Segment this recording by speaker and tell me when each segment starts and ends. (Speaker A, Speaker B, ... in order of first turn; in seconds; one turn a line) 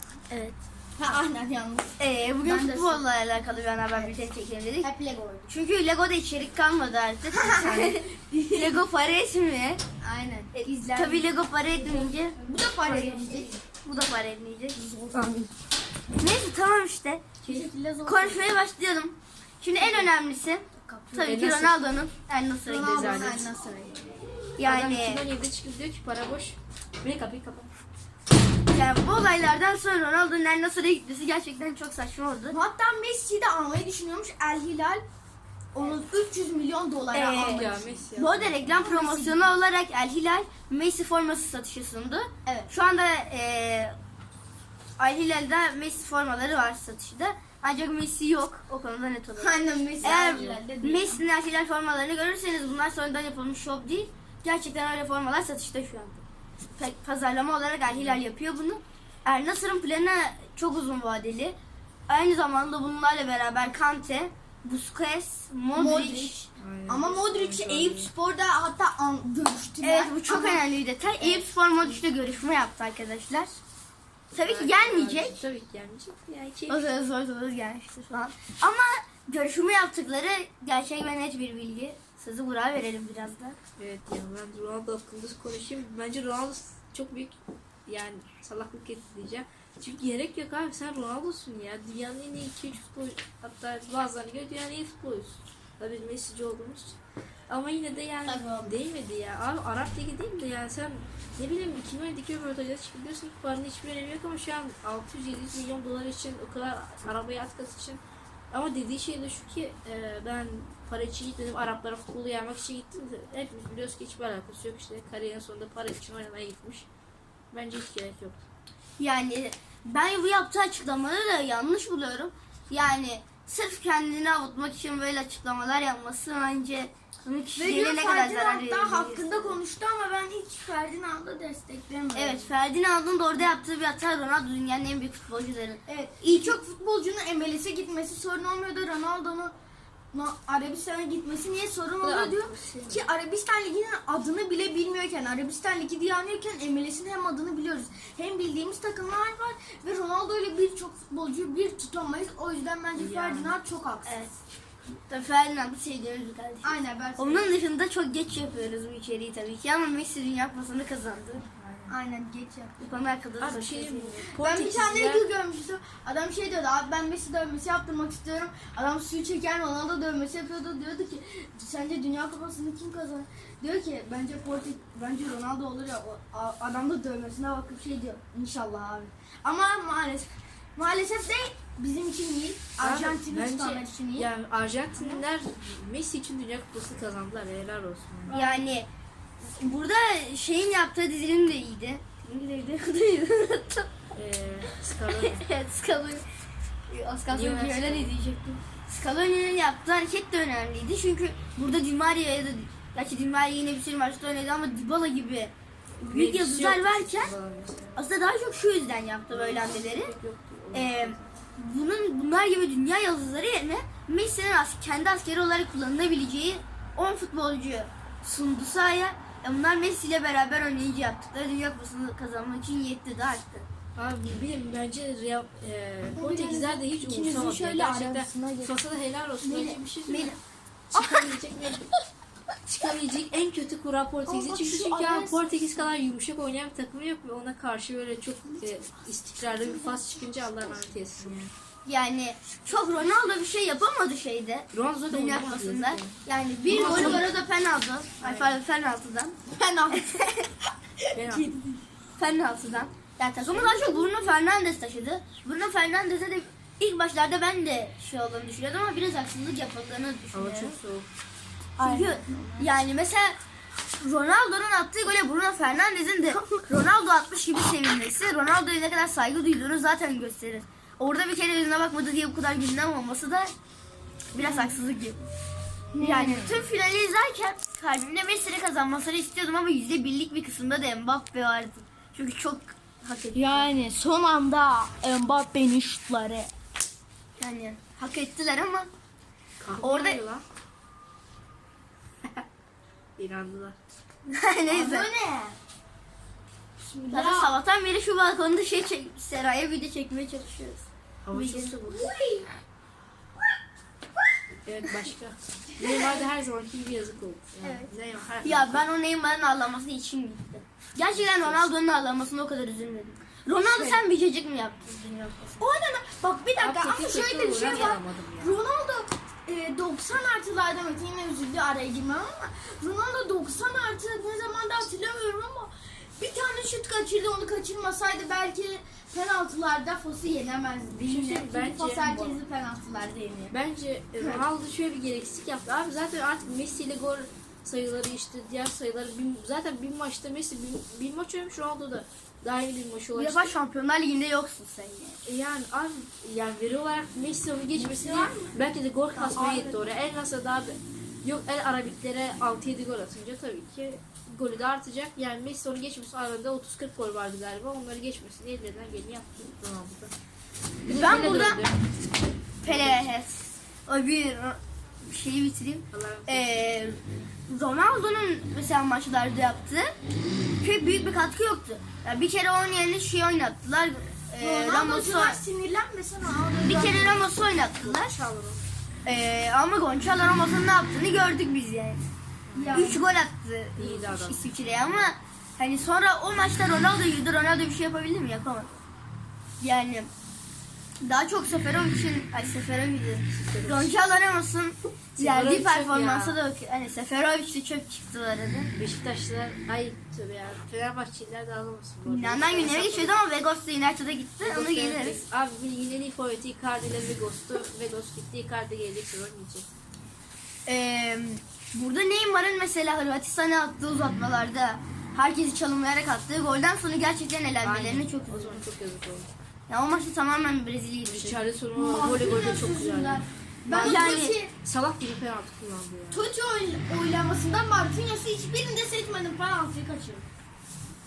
Speaker A: 0.3-0.6
Speaker B: 1.0-3.1
Speaker A: 2.0-4.9
Speaker B: 3.9-4.3
Speaker B: 4.8-5.5
Speaker A: 5.5-9.8
Speaker B: 7.3-8.8
Speaker C: 7.7-7.9
Speaker B: 10.0-13.6
Speaker A: 10.5-14.8
Speaker B: 14.8-15.5
Speaker A: 16.2-17.3
Speaker B: 17.4-18.4
Speaker A: 18.1-23.4
Speaker B: 20.8-21.4
Speaker C: 21.2-21.8
Speaker B: 22.6-24.0
Speaker C: 22.9-23.5
Speaker A: 24.6-25.3
Speaker C: 24.6-27.7
Speaker A: 28.7-32.6
Speaker B: 32.5-35.0
Speaker B: 35.7-37.8
Speaker A: 37.1-44.0
Speaker C: 37.3-38.6
Speaker B: 38.6-39.5
Speaker A: 45.0-56.2
Speaker B: 49.4-51.2
Speaker C: 50.0-50.6
Speaker A: 56.7-61.5
Speaker C: 57.9-58.2
Speaker A: 62.1-66.4
Speaker B: 65.7-70.6
Speaker C: 66.6-68.1
Speaker A: 69.8-73.5
Speaker A: 74.3-75.4
Speaker C: 74.4-76.9
Speaker A: 76.7-83.6
Speaker C: 83.8-108.0
Speaker B: 98.2-98.8
Speaker C: 108.5-116.9
Speaker C: 117.5-118.4
Speaker A: 119.0-129.6
Speaker B: 127.6-132.5
Speaker A: 132.1-136.6
Speaker B: 135.9-139.5
Speaker B: 140.1-154.2
Speaker C: 142.0-143.0
Speaker C: 152.9-153.6
Speaker A: 154.0-154.4
Speaker A: 154.9-161.4
Speaker B: 156.6-157.5
Speaker C: 161.6-161.9
Speaker B: 161.9-162.8
Speaker A: 162.8-164.2
Speaker C: 163.4-165.2
Speaker B: 164.3-184.3
Speaker C: 182.8-188.4
Speaker B: 185.0-185.2
Speaker A: 188.3-188.9
Speaker A: 189.6-194.0
Speaker C: 194.1-195.4
Speaker A: 195.1-196.2
Speaker A: 196.9-207.3
Speaker C: 197.3-198.1
Speaker C: 206.1-208.0
Speaker A: 207.9-210.1
Speaker C: 209.3-211.3
Speaker A: 210.7-223.7
Speaker C: 223.9-230.3
Speaker B: 226.1-228.8
Speaker B: 229.4-229.8
Speaker A: 230.1-230.4
Speaker C: 230.9-231.9
Speaker B: 230.9-231.2
Speaker C: 232.7-241.5
Speaker B: 234.2-235.7
Speaker A: 241.8-246.0
Speaker C: 244.7-247.3
Speaker B: 246.2-247.2
Speaker A: 246.6-249.4
Speaker C: 248.2-248.6
Speaker B: 249.5-250.0
Speaker A: 249.9-250.5
Speaker B: 251.1-251.8
Speaker C: 251.1-251.5
Speaker A: 252.2-260.8
Speaker B: 253.4-254.1
Speaker C: 260.3-261.1
Speaker B: 261.8-262.7
Speaker A: 261.8-263.4
Speaker A: 264.0-273.5
Speaker A: 274.3-275.2
Speaker B: 274.4-274.7
Speaker B: 275.9-276.6
Speaker A: 276.0-283.7
Speaker B: 283.3-286.5
Speaker A: 287.4-288.9
Speaker C: 289.6-290.4
Speaker A: 289.8-290.2
Speaker C: 293.2-293.8
Speaker A: 294.3-295.1
Speaker B: 294.7-295.6
Speaker B: 296.8-297.6
Speaker A: 297.1-301.9
Speaker C: 301.2-302.1
Speaker B: 301.9-302.5
Speaker C: 304.6-308.8
Speaker B: 305.8-306.3
Speaker A: 307.6-307.9
Speaker A: 308.4-315.7
Speaker C: 311.1-311.7
Speaker B: 313.5-314.0
Speaker B: 315.6-333.6
Speaker C: 316.6-318.6
Speaker C: 330.9-332.4
Speaker C: 333.5-343.5
Speaker A: 343.1-345.2
Speaker C: 345.2-360.1
Speaker B: 347.7-348.5
Speaker B: 349.1-349.8
Speaker C: 360.8-361.8
Speaker A: 360.8-361.6
Speaker C: 362.6-363.1
Speaker A: 362.6-369.9
Speaker C: 365.9-366.5
Speaker A: 370.6-375.4
Speaker B: 374.4-377.2
Speaker A: 376.6-378.1
Speaker C: 377.5-378.7
Speaker A: 379.0-382.1
Speaker C: 382.5-383.0
Speaker B: 382.5-383.0
Speaker A: 382.7-388.8
Speaker C: 383.8-384.9
Speaker A: 389.6-390.1
Speaker A: 391.0-398.7
Speaker C: 393.3-393.9
Speaker C: 395.2-396.4
Speaker C: 398.7-403.1
Speaker A: 402.0-405.2
Speaker C: 404.4-409.7
Speaker A: 410.6-418.6
Speaker C: 417.6-419.3
Speaker A: 419.7-421.4
Speaker C: 421.1-423.2
Speaker B: 421.7-424.5
Speaker A: 423.7-424.4
Speaker C: 423.8-426.2
Speaker B: 426.1-430.3